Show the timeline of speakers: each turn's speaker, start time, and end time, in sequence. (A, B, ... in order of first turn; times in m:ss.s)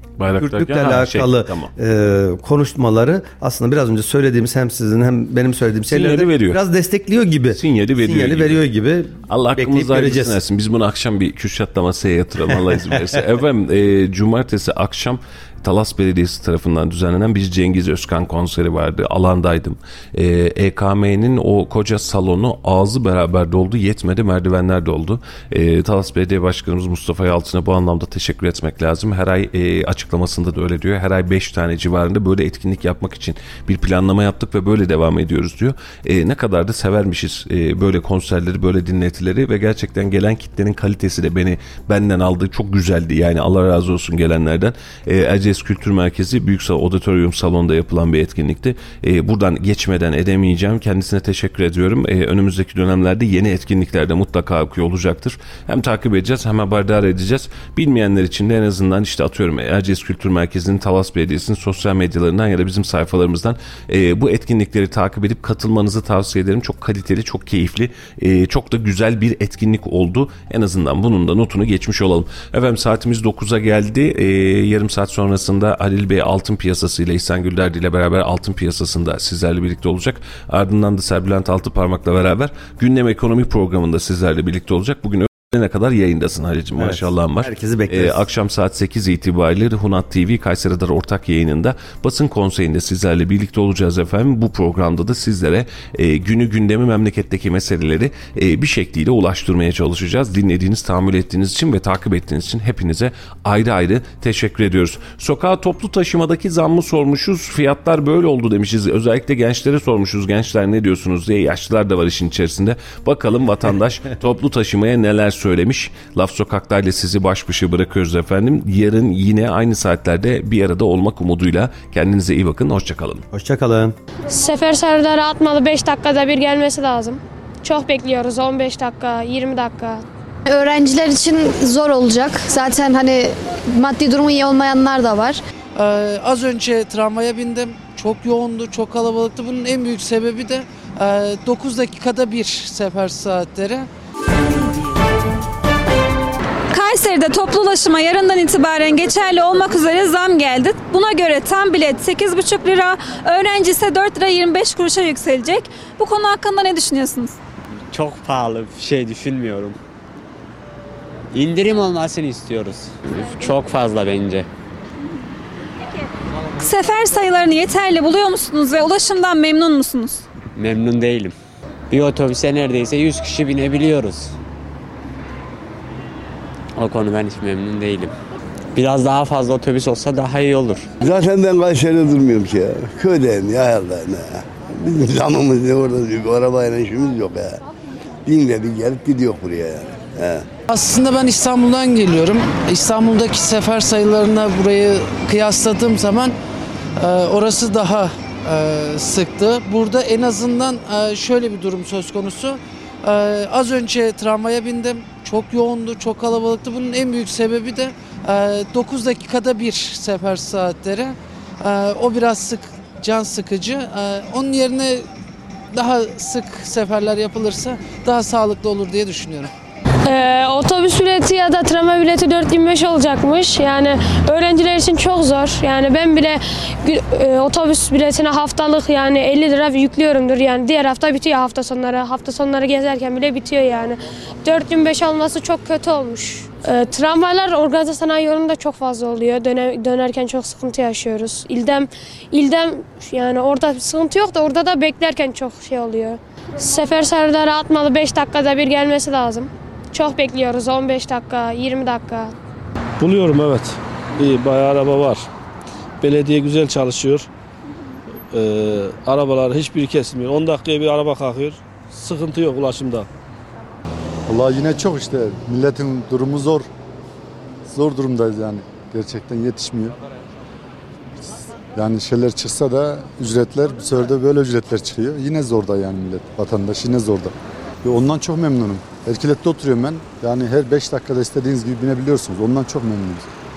0:00.2-0:01.7 A
0:00.4-0:10.4 B
0:05.9-0:06.6 A
0:07.5-0:08.6 A
0:09.3-2:03.3 A
1:26.7-1:28.2 B
2:03.3-2:04.0 B
2:04.3-2:10.0 C
2:10.5-2:15.4 D
2:15.7-2:23.9 E
2:26.7-2:37.4 F
2:37.9-2:39.8 G
2:41.3-2:44.5 G
2:46.6-2:50.2 F
2:50.6-2:51.3 G
2:51.9-2:54.3 G
2:56.8-2:58.1 G
2:58.7-3:00.9 G
3:01.0-3:07.6 H
3:08.3-3:10.4 H
3:10.7-3:16.4 E
3:17.0-3:35.1 E
3:35.7-3:39.5 E
3:40.0-4:12.3 C
4:13.0-4:15.2 I
4:16.0-4:17.3 I
4:18.3-4:23.1 I
4:24.3-4:26.7 J
4:27.6-4:30.0 J
4:31.2-4:43.3 J